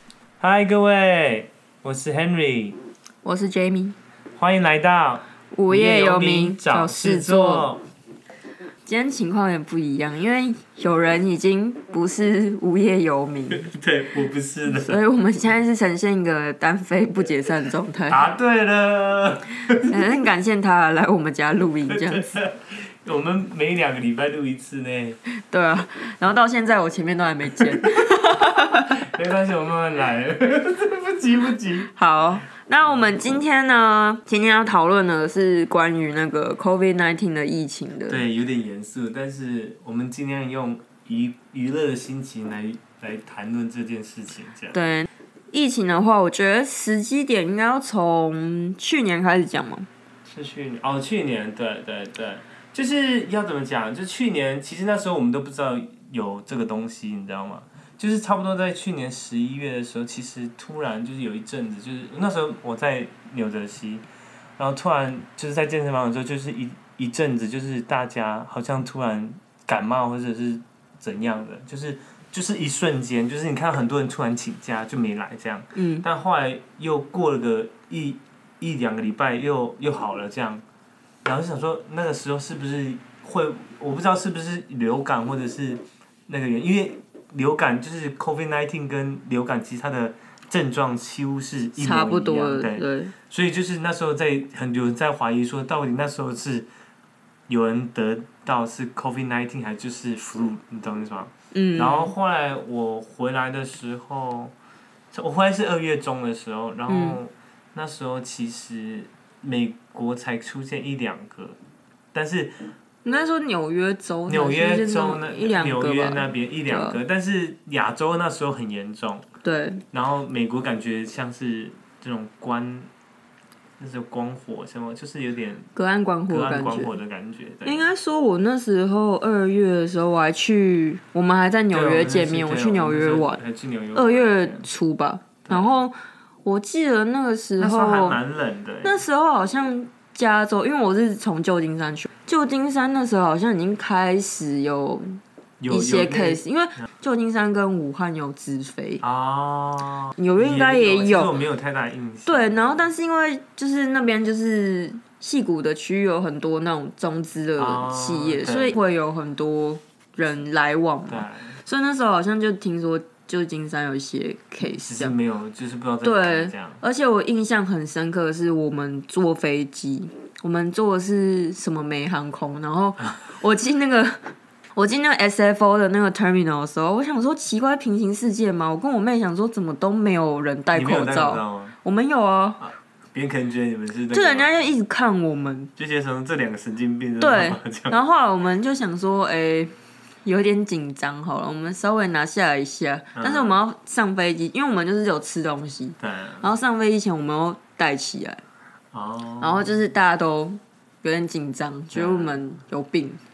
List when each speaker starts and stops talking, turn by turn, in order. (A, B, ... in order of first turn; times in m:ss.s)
0:00.4-0:02.8 A
0:03.2-0:04.0 B
0:04.3-0:07.8 A
0:05.5-0:07.7 B
0:08.8-0:13.7 B
0:13.5-0:15.0 A
0:14.7-0:18.2 B
0:18.1-0:20.0 A
0:19.8-0:22.4 B
0:21.8-0:25.2 A
0:25.5-0:29.0 B
0:27.6-0:28.1 A
0:28.7-0:31.9 A
0:31.9-0:38.2 B
0:32.8-0:33.4 A
0:38.1-0:44.8 A
0:44.7-0:49.9 B
0:50.2-1:04.0 A
1:04.6-1:20.6 A
1:15.7-1:16.0 B
1:21.2-1:36.7 A
1:31.8-1:33.1 B
1:37.5-1:44.5 A
1:41.5-1:42.1 B
1:45.1-1:51.6 A
1:46.9-1:47.2 B
1:52.1-1:52.7 A
1:53.0-1:57.0 B
1:54.3-1:59.2 A
1:59.4-1:59.8 B
1:59.9-2:02.9 A
2:03.8-2:05.7 A
2:05.7-2:07.0 B
2:06.3-2:07.9 A
2:07.6-2:13.4 B
2:11.7-2:14.6 A
2:13.9-2:18.2 B
2:15.4-2:15.8 A
2:17.6-2:19.0 A
2:18.8-2:29.0 B
2:25.6-2:26.4 A
2:29.0-2:32.8 A
2:30.2-2:31.4 B
2:32.2-2:45.1 B
2:37.6-2:38.8 A
2:41.1-2:41.6 A
2:44.7-2:46.8 A
2:46.0-3:02.6 B
3:00.7-3:01.7 A
3:02.6-3:04.5 A
3:04.1-3:05.7 B
3:05.8-3:08.0 A
3:07.2-3:09.7 B
3:10.2-3:18.4 B
3:13.2-3:13.6 A
3:16.0-3:16.5 A
3:18.9-3:19.8 A
3:19.4-3:23.2 B
3:21.9-3:22.4 A